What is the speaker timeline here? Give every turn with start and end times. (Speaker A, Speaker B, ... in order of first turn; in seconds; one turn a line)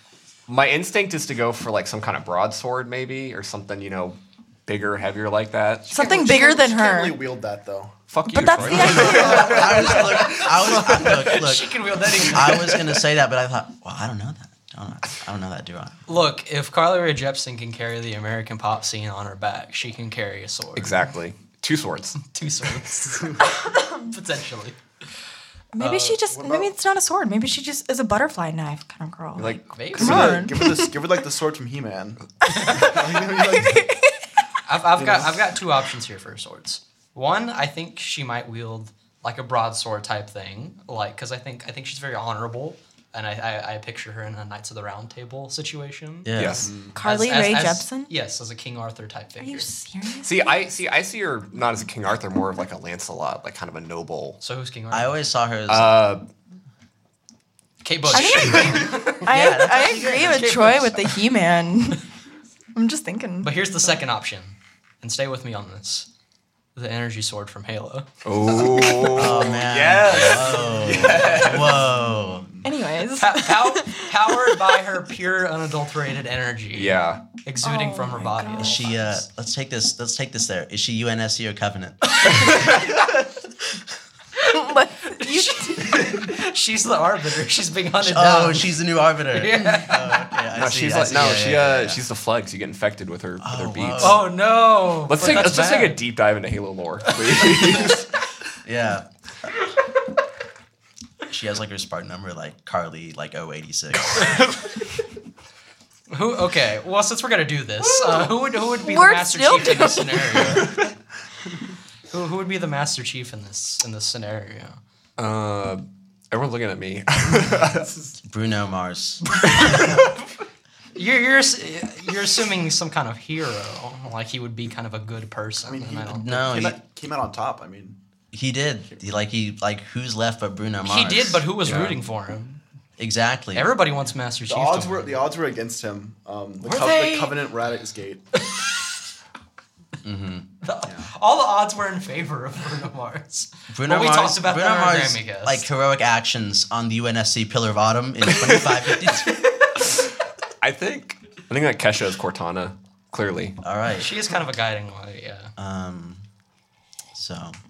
Speaker A: 0.5-5.9
Speaker B: 5.9-7.2
Speaker C: 5.9-8.0
Speaker A: 8.1-11.1
Speaker B: 8.3-10.0
Speaker D: 8.7-16.0
Speaker E: 9.1-12.9
Speaker E: 16.1-21.0
Speaker A: 20.8-22.2
Speaker E: 22.2-24.8
Speaker B: 23.6-24.1
Speaker B: 25.7-31.0
Speaker E: 25.8-26.2
Speaker C: 26.3-26.7
Speaker A: 29.3-30.4
Speaker E: 29.7-30.4
Speaker C: 30.0-34.0
Speaker E: 32.5-33.0
Speaker B: 32.6-34.3
Speaker E: 34.6-49.7
Speaker C: 35.0-35.4
Speaker D: 46.2-46.7
Speaker A: 46.3-46.7
Speaker C: 46.6-47.0
Speaker B: 46.9-48.1
Speaker B: 49.4-50.5
Speaker A: 50.2-54.4
Speaker E: 54.4-55.2
Speaker D: 54.9-56.0
Speaker A: 55.7-56.2
Speaker E: 57.8-61.1
Speaker B: 58.1-62.0
Speaker D: 59.2-60.7
Speaker B: 62.7-63.5
Speaker E: 63.4-66.1
Speaker E: 66.7-68.1
Speaker A: 68.2-71.8
Speaker D: 69.1-72.5
Speaker C: 70.3-72.7
Speaker B: 72.6-74.8
Speaker E: 73.1-79.2
Speaker A: 76.7-77.2
Speaker B: 77.6-78.8
Speaker D: 78.5-82.8
Speaker A: 82.4-82.8
Speaker B: 84.4-86.3
Speaker E: 85.1-88.8
Speaker D: 88.0-92.0
Speaker E: 89.3-90.3
Speaker A: 90.5-94.2
Speaker D: 93.4-94.2
Speaker E: 94.0-96.0
Speaker A: 95.1-98.1
Speaker E: 97.0-98.0
Speaker D: 98.6-99.5
Speaker D: 101.2-104.4
Speaker E: 106.1-110.8
Speaker B: 108.8-110.6
Speaker E: 112.1-114.8
Speaker A: 115.2-117.9
Speaker D: 118.2-119.9
Speaker E: 119.4-120.1
Speaker E: 121.0-126.4
Speaker C: 125.6-128.0
Speaker D: 126.1-126.8
Speaker D: 128.3-131.9
Speaker E: 130.8-132.6
Speaker A: 131.7-131.9
Speaker D: 133.0-133.7
Speaker E: 133.5-135.2
Speaker C: 134.4-138.3
Speaker E: 136.7-137.3
Speaker B: 136.7-137.2
Speaker D: 140.0-140.5
Speaker E: 140.6-145.7
Speaker D: 143.7-149.4
Speaker E: 149.3-149.7
Speaker A: 150.6-153.6
Speaker D: 153.6-154.1
Speaker E: 154.0-155.5
Speaker D: 155.6-156.2
Speaker D: 157.1-157.6